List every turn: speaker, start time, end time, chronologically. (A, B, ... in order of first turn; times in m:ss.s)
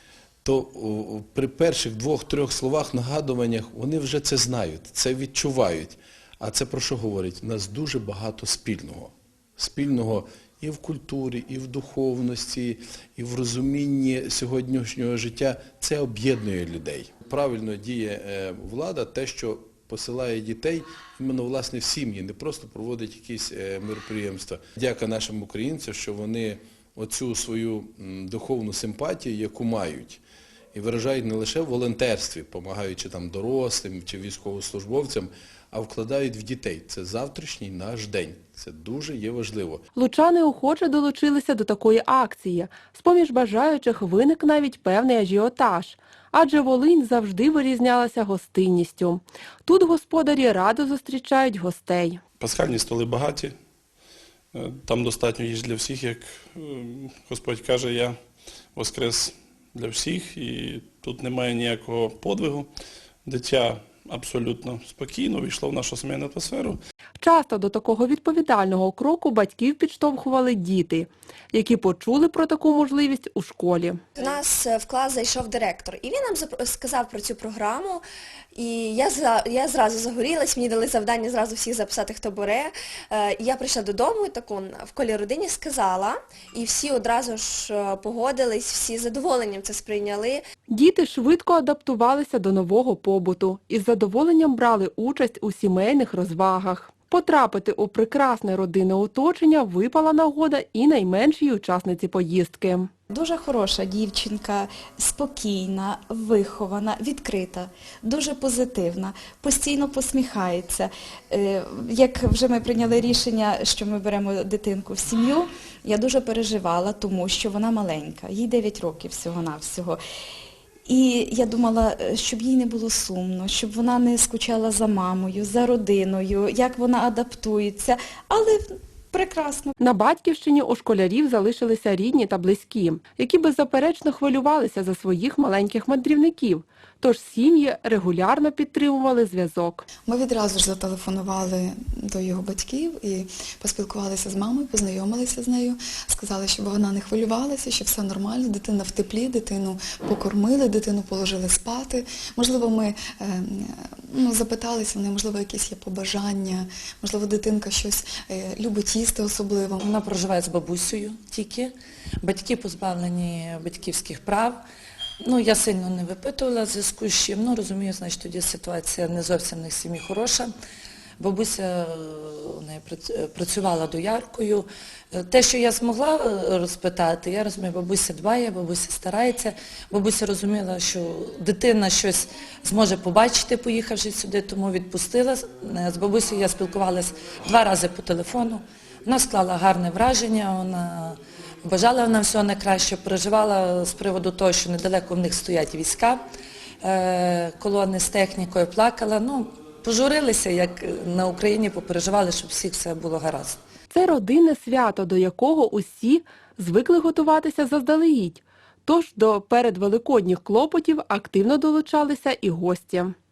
0:00.4-0:30.2 A
0:30.7-0:39.8 A
0:39.9-0:52.2 B
0:52.4-0:53.5 C
0:54.5-0:58.2 C
0:58.7-1:02.7 C
1:03.2-1:06.8 C
1:07.2-1:14.0 B
1:14.2-1:18.0 D
1:18.5-1:30.4 D
1:30.7-1:42.9 B
1:43.1-2:00.0 E
2:00.8-2:09.7 E
2:09.8-2:19.8 B
2:20.1-2:39.8 F
2:39.8-2:44.6 G
2:45.2-2:50.5 G
2:51.2-3:16.2 G
3:16.8-3:23.6 G
3:23.9-3:33.1 B